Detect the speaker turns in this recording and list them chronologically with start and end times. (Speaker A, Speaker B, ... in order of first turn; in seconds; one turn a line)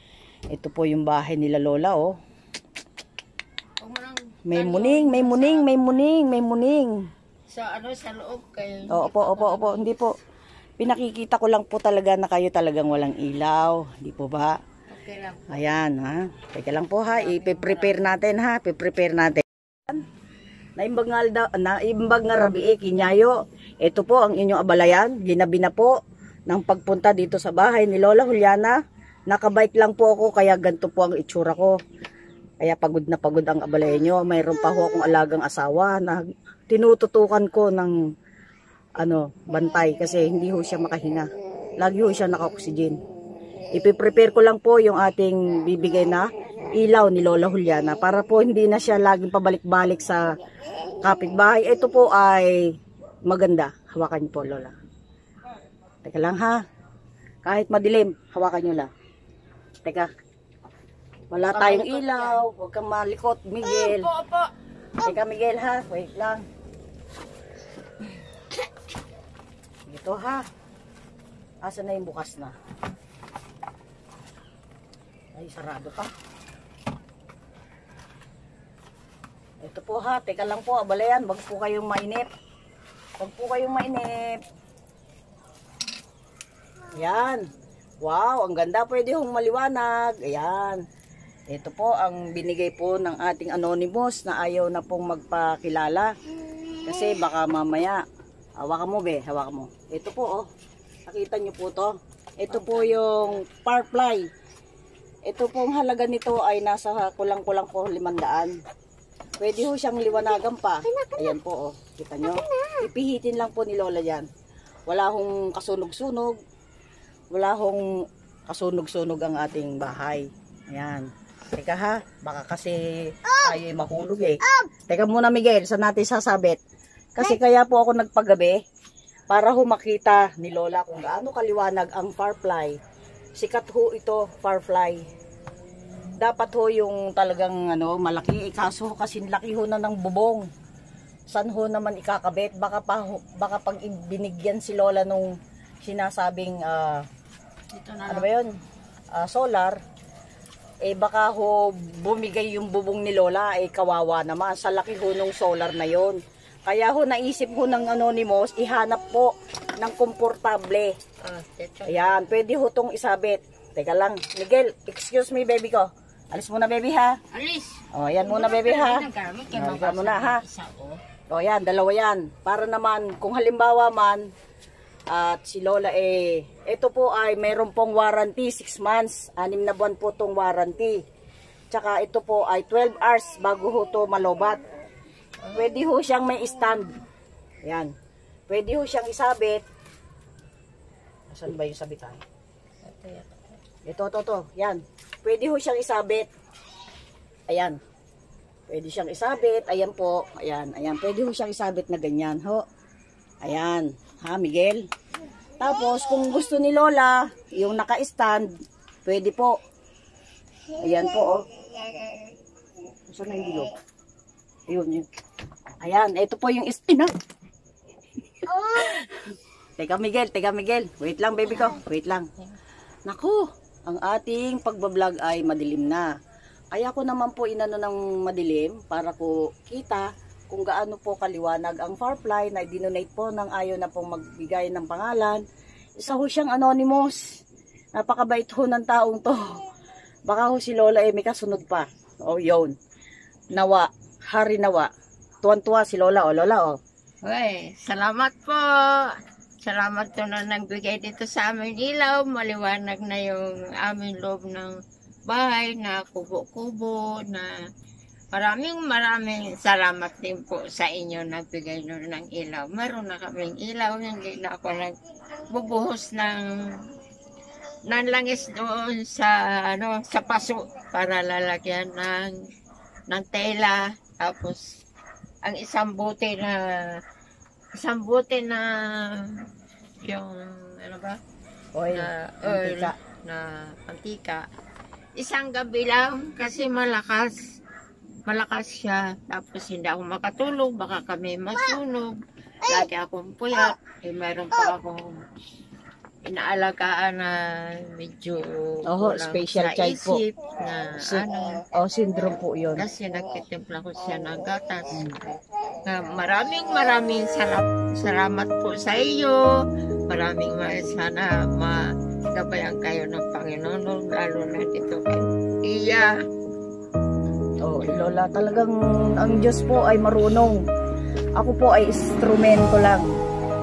Speaker A: 0.5-2.1
Speaker B: 3.8-5.7
Speaker A: 4.5-6.9
Speaker B: 7.5-9.9
Speaker A: 8.9-10.1
Speaker A: 10.8-14.6
Speaker B: 14.9-15.5
Speaker A: 15.5-20.0
Speaker B: 17.1-18.0
Speaker A: 20.8-25.9
Speaker A: 26.5-28.8
Speaker A: 29.3-31.8
Speaker A: 32.6-37.9
Speaker A: 39.0-41.3
Speaker A: 41.8-43.0
Speaker A: 43.7-50.4
Speaker A: 51.0-52.6
Speaker A: 53.3-54.7
Speaker A: 56.0-56.6
Speaker A: 57.4-58.9
Speaker A: 61.3-64.1
Speaker B: 61.5-62.4
Speaker B: 63.6-64.5
Speaker A: 65.0-66.4
Speaker A: 69.9-70.4
Speaker A: 71.6-72.5
Speaker A: 75.3-76.1
Speaker A: 79.6-82.3
Speaker A: 83.2-84.3
Speaker A: 87.0-87.4
Speaker A: 88.0-90.8
Speaker A: 91.5-96.1
Speaker A: 96.9-98.0
Speaker A: 98.6-100.4
Speaker A: 101.1-104.2
Speaker B: 102.5-103.4
Speaker A: 105.3-108.5
Speaker A: 109.4-114.3
Speaker A: 114.9-116.3
Speaker A: 117.3-117.8
Speaker A: 118.5-126.6
Speaker A: 127.2-128.6
Speaker A: 129.3-132.8
Speaker A: 133.4-135.0
Speaker A: 136.2-140.4
Speaker A: 141.3-145.3
Speaker A: 145.8-147.0
Speaker B: 147.7-148.3
Speaker A: 148.1-148.5
Speaker A: 149.1-149.8
Speaker A: 150.8-160.9
Speaker B: 161.2-162.3
Speaker A: 161.9-167.2
Speaker B: 167.3-171.0
Speaker A: 167.9-170.4
Speaker A: 171.3-174.2
Speaker A: 175.1-181.0
Speaker A: 181.7-184.6
Speaker A: 185.5-186.9
Speaker A: 187.7-187.9
Speaker A: 188.5-189.6
Speaker A: 191.3-192.2
Speaker B: 192.8-193.6
Speaker A: 193.9-196.3
Speaker A: 197.5-197.8
Speaker A: 198.7-202.6
Speaker A: 203.4-204.8
Speaker A: 205.6-208.5
Speaker A: 209.1-209.6
Speaker A: 210.8-211.4
Speaker A: 213.1-213.7
Speaker A: 214.7-215.1
Speaker A: 215.8-217.1
Speaker A: 218.5-219.0
Speaker A: 219.8-222.3
Speaker A: 223.1-226.1
Speaker A: 226.7-235.4
Speaker A: 236.0-237.2
Speaker A: 237.9-239.6
Speaker A: 240.3-242.7
Speaker A: 243.5-244.9
Speaker A: 245.4-246.8
Speaker B: 247.2-254.7
Speaker B: 255.3-257.5
Speaker B: 258.3-265.0
Speaker B: 265.5-266.9
Speaker B: 267.9-272.4
Speaker B: 273.1-274.8
Speaker B: 275.4-276.9
Speaker B: 277.8-279.3
Speaker B: 280.1-281.2
Speaker A: 281.8-282.9
Speaker B: 281.9-284.5
Speaker B: 285.2-287.6
Speaker B: 288.3-295.2
Speaker B: 296.2-301.6
Speaker A: 298.9-300.2
Speaker A: 301.0-302.9
Speaker B: 302.8-305.0
Speaker B: 305.9-309.5
Speaker B: 310.1-316.1
Speaker A: 317.6-320.6
Speaker A: 321.4-323.0